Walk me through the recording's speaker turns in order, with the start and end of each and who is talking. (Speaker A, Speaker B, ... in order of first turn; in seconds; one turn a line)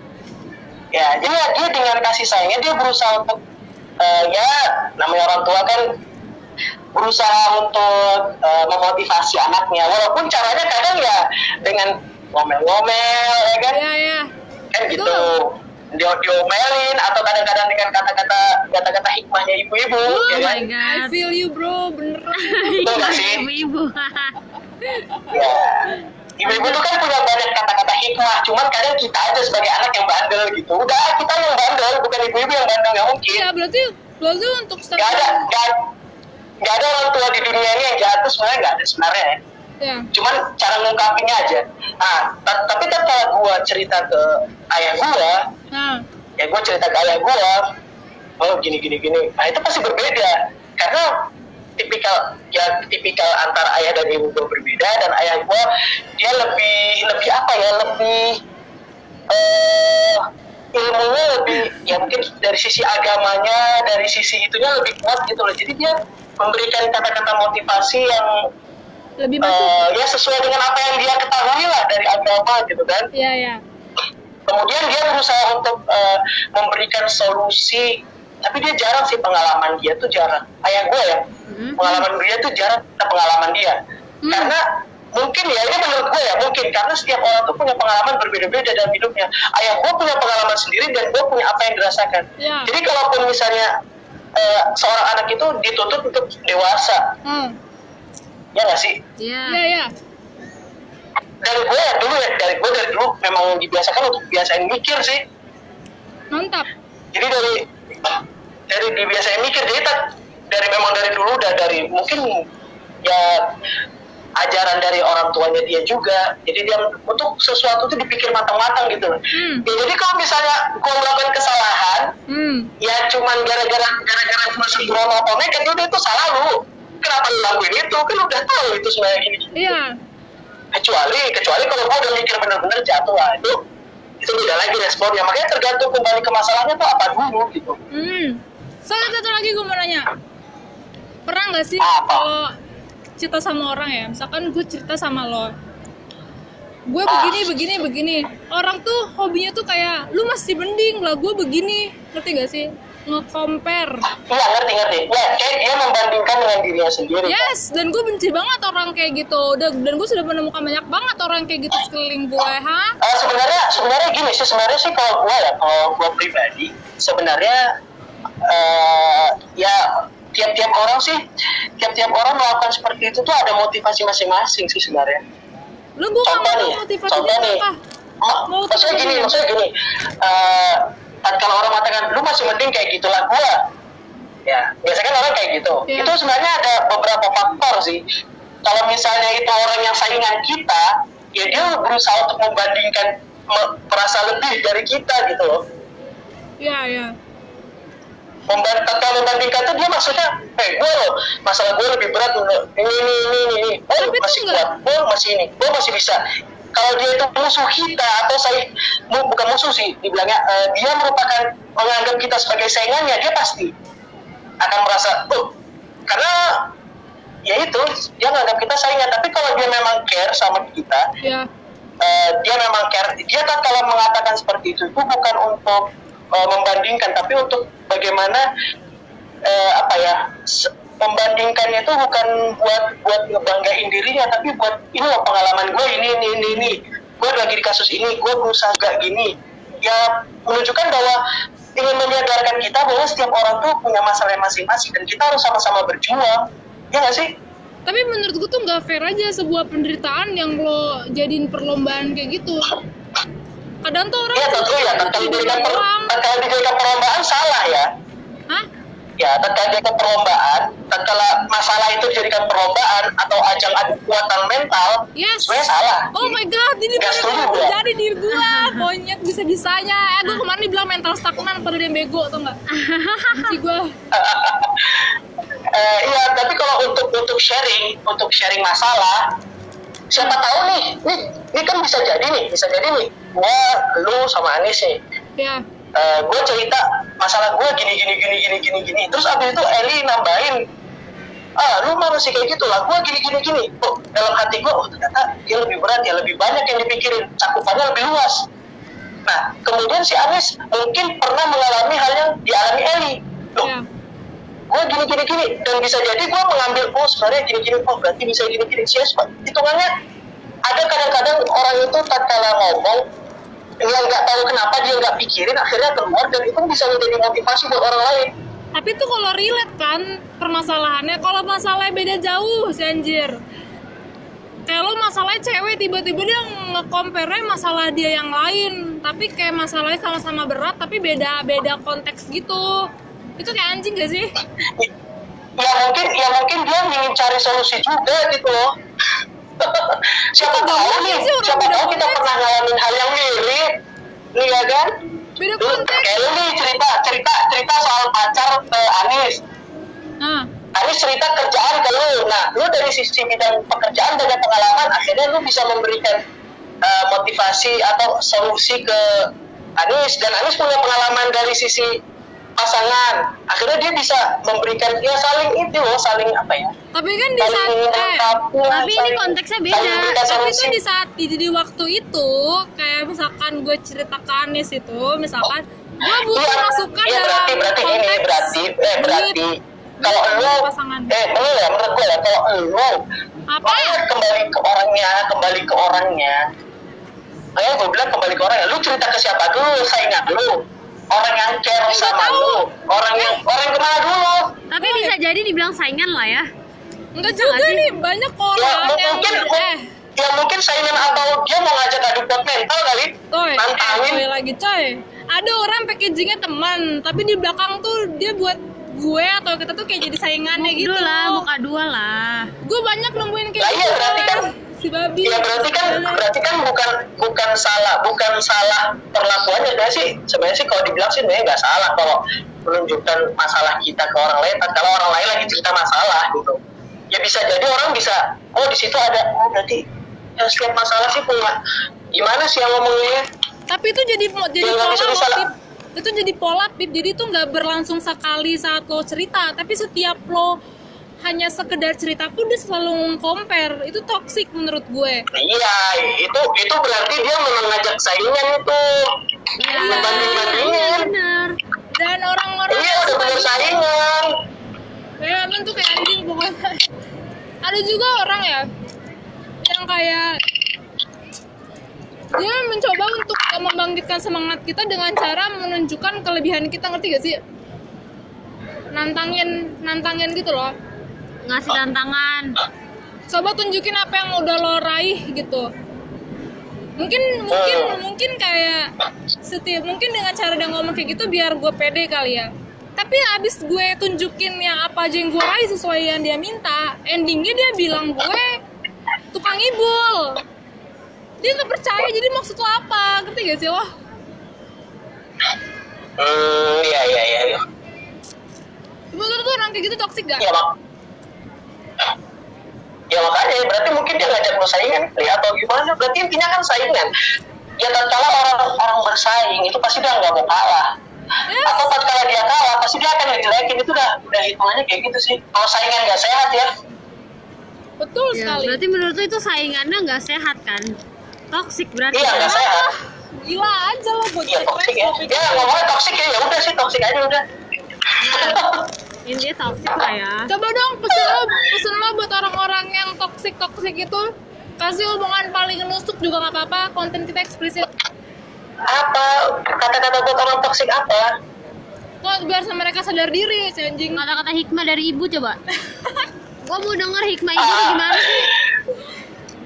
Speaker A: 0.9-3.4
Speaker A: 4.0-5.9
Speaker A: 6.9-13.8
Speaker B: 13.7-14.3
Speaker A: 14.7-20.6
Speaker B: 14.9-15.3
Speaker B: 20.1-23.3
Speaker C: 20.3-21.1
Speaker C: 22.4-24.4
Speaker A: 22.8-23.4
Speaker B: 25.1-25.3
Speaker A: 25.3-33.5
Speaker B: 26.4-26.8
Speaker B: 33.3-35.5
Speaker A: 35.0-35.8
Speaker A: 36.6-39.4
Speaker B: 39.8-40.1
Speaker A: 40.1-45.5
Speaker B: 45.7-46.0
Speaker A: 46.4-47.7
Speaker A: 48.4-51.1
Speaker A: 51.8-55.6
Speaker A: 56.2-58.4
Speaker A: 59.3-68.5
Speaker B: 69.2-69.8
Speaker A: 69.4-73.1
Speaker B: 73.1-73.6
Speaker A: 74.5-81.2
Speaker C: 81.5-82.0
Speaker A: 81.8-83.8
Speaker B: 84.2-84.5
Speaker A: 84.3-84.6
Speaker A: 85.1-93.7
Speaker B: 92.4-92.7
Speaker A: 94.3-97.0
Speaker B: 97.2-97.5
Speaker A: 98.5-99.0
Speaker C: 99.2-99.6
Speaker B: 99.5-99.9
Speaker A: 101.4-105.2
Speaker B: 106.3-106.7
Speaker A: 107.1-108.2
Speaker A: 108.7-112.4
Speaker A: 113.0-113.5
Speaker A: 114.4-122.1
Speaker B: 119.3-119.7
Speaker B: 122.3-122.7
Speaker A: 122.8-129.8
Speaker B: 129.5-129.9
Speaker A: 130.7-133.6
Speaker A: 134.2-137.8
Speaker B: 137.9-140.1
Speaker B: 141.3-142.5
Speaker A: 141.8-142.3
Speaker B: 143.2-145.5
Speaker B: 146.9-154.0
Speaker A: 147.1-147.4
Speaker A: 154.3-157.5
Speaker B: 157.2-162.9
Speaker A: 163.0-167.6
Speaker A: 168.4-171.2
Speaker A: 171.8-175.2
Speaker B: 176.0-177.8
Speaker A: 176.2-177.7
Speaker A: 178.2-183.6
Speaker B: 178.5-179.4
Speaker A: 184.4-188.0
Speaker B: 185.9-186.1
Speaker A: 188.6-195.6
Speaker B: 196.6-197.1
Speaker A: 198.5-206.2
Speaker B: 204.0-204.7
Speaker A: 206.7-213.7
Speaker A: 214.6-215.5
Speaker A: 216.1-216.7
Speaker A: 217.5-221.1
Speaker B: 221.2-221.5
Speaker A: 222.0-228.4
Speaker A: 229.4-241.2
Speaker A: 241.8-247.3
Speaker B: 247.8-252.7
Speaker B: 253.8-256.2
Speaker A: 254.3-257.9
Speaker A: 259.2-266.4
Speaker B: 265.1-272.6
Speaker A: 267.0-267.8
Speaker C: 268.3-268.8
Speaker C: 272.7-273.6
Speaker B: 273.3-273.9
Speaker A: 274.1-275.1
Speaker A: 275.7-279.2
Speaker A: 280.1-285.0
Speaker A: 285.9-290.6
Speaker A: 291.6-298.5
Speaker A: 299.3-303.7
Speaker B: 303.6-303.8
Speaker A: 304.7-309.9
Speaker A: 310.7-313.0
Speaker A: 313.8-318.3
Speaker B: 318.7-323.4
Speaker B: 324.7-334.3
Speaker A: 335.6-338.7
Speaker A: 339.6-343.7
Speaker B: 340.4-342.3
Speaker A: 344.4-344.9
Speaker B: 345.4-346.2
Speaker A: 345.6-349.4
Speaker B: 350.2-350.5
Speaker A: 350.7-356.2
Speaker A: 356.8-361.9
Speaker A: 362.6-366.7
Speaker B: 366.9-368.3
Speaker A: 367.4-370.8
Speaker C: 368.7-370.2
Speaker B: 370.1-379.4
Speaker A: 376.1-383.0
Speaker B: 380.0-381.2
Speaker B: 383.5-384.0
Speaker A: 383.6-386.4
Speaker A: 387.6-394.6
Speaker B: 391.9-392.6
Speaker C: 394.7-396.5
Speaker B: 394.8-395.1
Speaker B: 397.1-399.8
Speaker C: 397.2-397.9
Speaker A: 398.6-404.2
Speaker B: 403.3-411.5
Speaker C: 410.5-412.5
Speaker B: 412.6-416.3
Speaker A: 413.6-414.4
Speaker A: 415.2-426.6
Speaker A: 427.1-429.8
Speaker A: 430.4-431.5
Speaker A: 432.1-433.2
Speaker B: 433.7-440.6
Speaker A: 434.6-435.4
Speaker B: 441.2-445.2
Speaker A: 445.3-449.0
Speaker C: 449.6-451.6
Speaker B: 449.7-450.7
Speaker A: 449.8-451.1
Speaker B: 451.9-453.8
Speaker A: 452.7-454.3
Speaker B: 455.2-456.8
Speaker B: 457.6-458.6
Speaker B: 459.6-460.3
Speaker B: 462.4-467.4
Speaker B: 468.9-470.7
Speaker C: 471.4-472.6
Speaker B: 473.3-475.7
Speaker B: 477.0-478.9
Speaker A: 477.5-478.0
Speaker B: 479.4-488.6
Speaker B: 489.3-490.4
Speaker B: 491.4-493.9
Speaker A: 496.2-497.6
Speaker B: 499.1-500.5
Speaker A: 500.4-500.8
Speaker A: 503.1-507.1
Speaker A: 507.8-510.9
Speaker B: 511.5-511.9
Speaker A: 511.6-516.7
Speaker B: 518.0-518.8
Speaker C: 518.3-521.0
Speaker C: 521.5-522.6
Speaker A: 522.1-522.9
Speaker B: 522.2-526.0
Speaker A: 524.5-527.4
Speaker A: 528.0-528.9
Speaker C: 528.2-528.6
Speaker C: 529.2-530.5
Speaker B: 530.5-534.3
Speaker A: 531.1-531.4
Speaker B: 534.8-537.9
Speaker A: 538.9-541.3
Speaker B: 542.2-544.2
Speaker C: 544.1-545.6
Speaker C: 546.6-548.5
Speaker A: 547.5-548.5